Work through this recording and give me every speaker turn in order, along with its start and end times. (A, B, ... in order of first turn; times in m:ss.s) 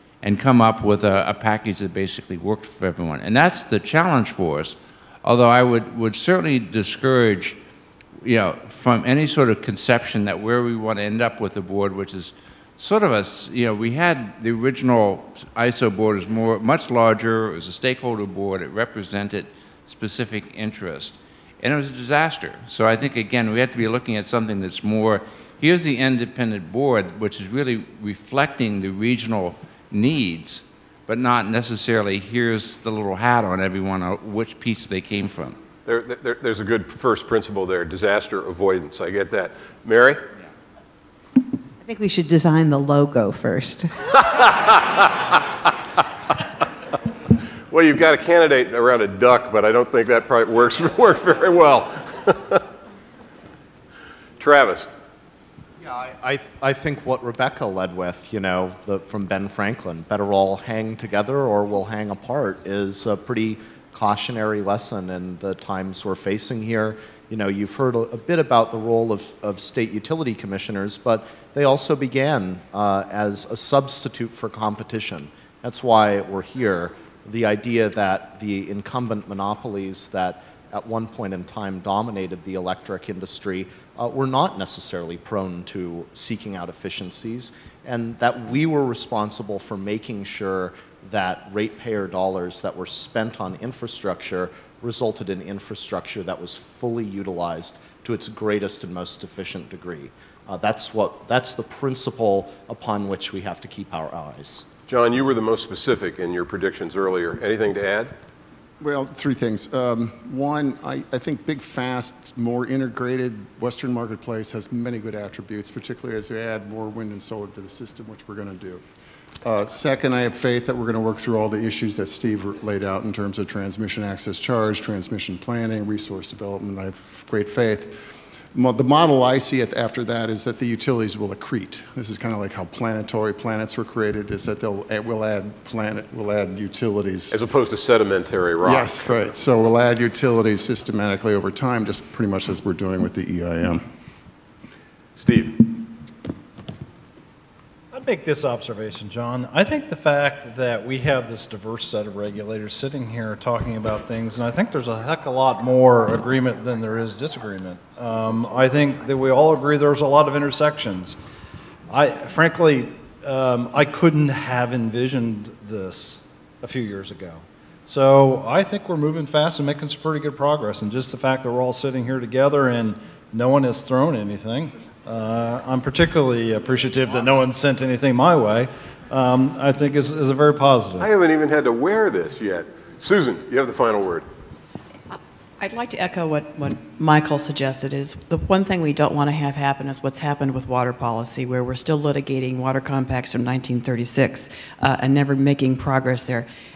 0:00.2-0:07.6 A
0:08.2-0:35.6 A
0:35.8-0:40.2 B
0:41.8-0:43.9 C
0:44.3-0:45.1 B
0:47.7-0:52.6 B
0:54.4-0:54.9 B
0:55.8-1:44.7 D
1:44.9-1:48.1 B
1:48.8-1:58.8 E
1:59.4-2:08.0 E
2:08.5-2:17.4 E
2:17.3-2:19.2 B
2:18.6-2:23.8 E
2:25.2-2:25.8 B
2:27.9-2:41.2 F
2:41.9-3:01.1 F
3:01.0-3:04.3 B
3:05.6-3:16.5 G